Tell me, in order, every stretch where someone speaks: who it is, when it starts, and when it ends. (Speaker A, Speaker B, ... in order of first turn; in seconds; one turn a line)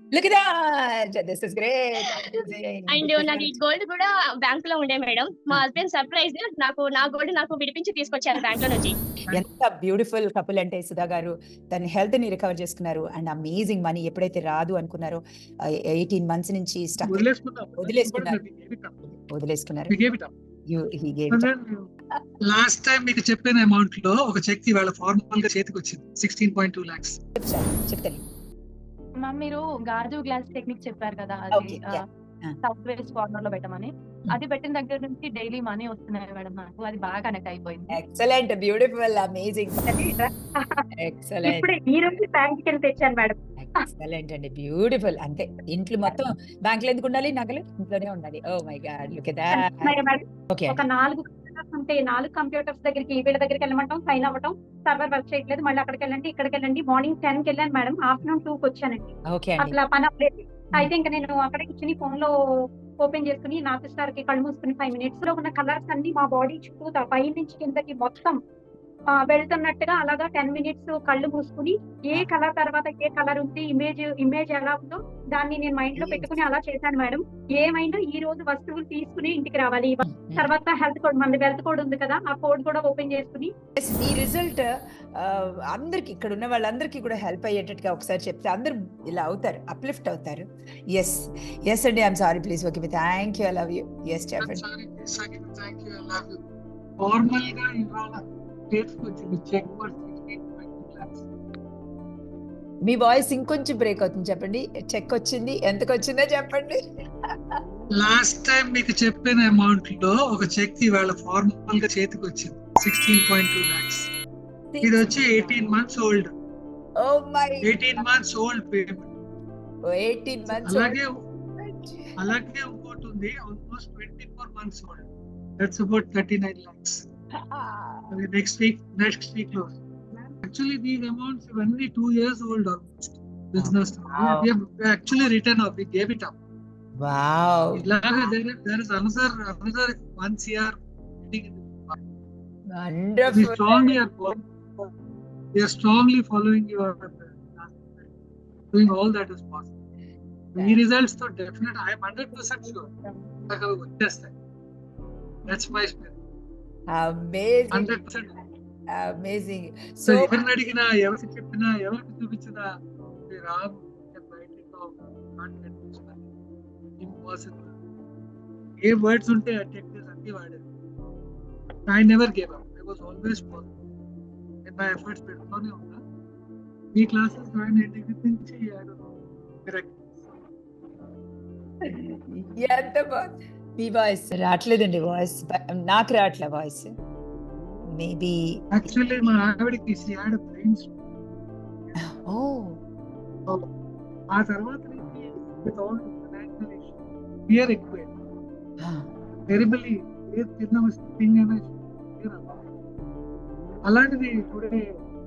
Speaker A: 0.1-3.6
Speaker B: 2.9-9.0
Speaker A: 9.3-15.2
Speaker A: 15.9-17.3
Speaker C: 17.0-19.2
Speaker A: 17.8-18.4
Speaker A: 19.3-19.9
Speaker C: 19.9-20.3
Speaker A: 20.7-21.5
Speaker C: 21.3-21.9
Speaker C: 22.5-27.2
Speaker A: 27.4-28.2
Speaker D: 29.2-32.0
Speaker A: 31.5-32.5
Speaker D: 32.6-38.0
Speaker A: 37.9-39.8
Speaker E: 39.9-40.8
Speaker A: 41.0-41.7
Speaker E: 41.5-43.4
Speaker A: 43.6-49.9
Speaker E: 49.5-62.3
Speaker A: 50.5-50.9
Speaker A: 59.3-59.8
Speaker E: 63.0-68.4
Speaker E: 69.2-83.5
Speaker A: 76.0-76.4
Speaker A: 80.0-80.5
Speaker A: 83.8-94.7
Speaker C: 94.4-96.4
Speaker C: 97.0-101.3
Speaker A: 102.8-106.8
Speaker C: 108.0-114.1
Speaker A: 114.7-115.7
Speaker C: 114.8-116.3
Speaker A: 117.0-118.0
Speaker C: 117.6-119.1
Speaker A: 119.9-121.0
Speaker C: 120.7-121.2
Speaker A: 121.6-122.1
Speaker C: 122.2-125.1
Speaker C: 125.6-127.1
Speaker A: 127.5-128.1
Speaker C: 128.1-129.7
Speaker C: 130.4-136.3
Speaker A: 133.6-134.5
Speaker A: 137.0-137.9
Speaker C: 137.8-142.0
Speaker A: 142.7-143.9
Speaker C: 143.3-144.9
Speaker C: 145.6-148.2
Speaker C: 148.7-149.8
Speaker C: 150.6-152.9
Speaker C: 153.5-154.3
Speaker C: 155.4-156.2
Speaker A: 156.9-157.9
Speaker C: 157.7-158.4
Speaker A: 158.9-160.3
Speaker C: 160.1-162.6
Speaker C: 163.3-166.3
Speaker C: 167.0-167.8
Speaker C: 168.8-170.7
Speaker C: 171.9-173.8
Speaker C: 174.7-176.0
Speaker C: 176.9-179.1
Speaker C: 179.7-180.2
Speaker A: 181.8-186.9
Speaker A: 187.9-188.6
Speaker C: 188.7-190.9
Speaker A: 192.0-192.8
Speaker C: 194.3-196.9
Speaker C: 197.5-198.1
Speaker A: 198.8-199.1
Speaker C: 199.5-202.5
Speaker C: 203.8-204.8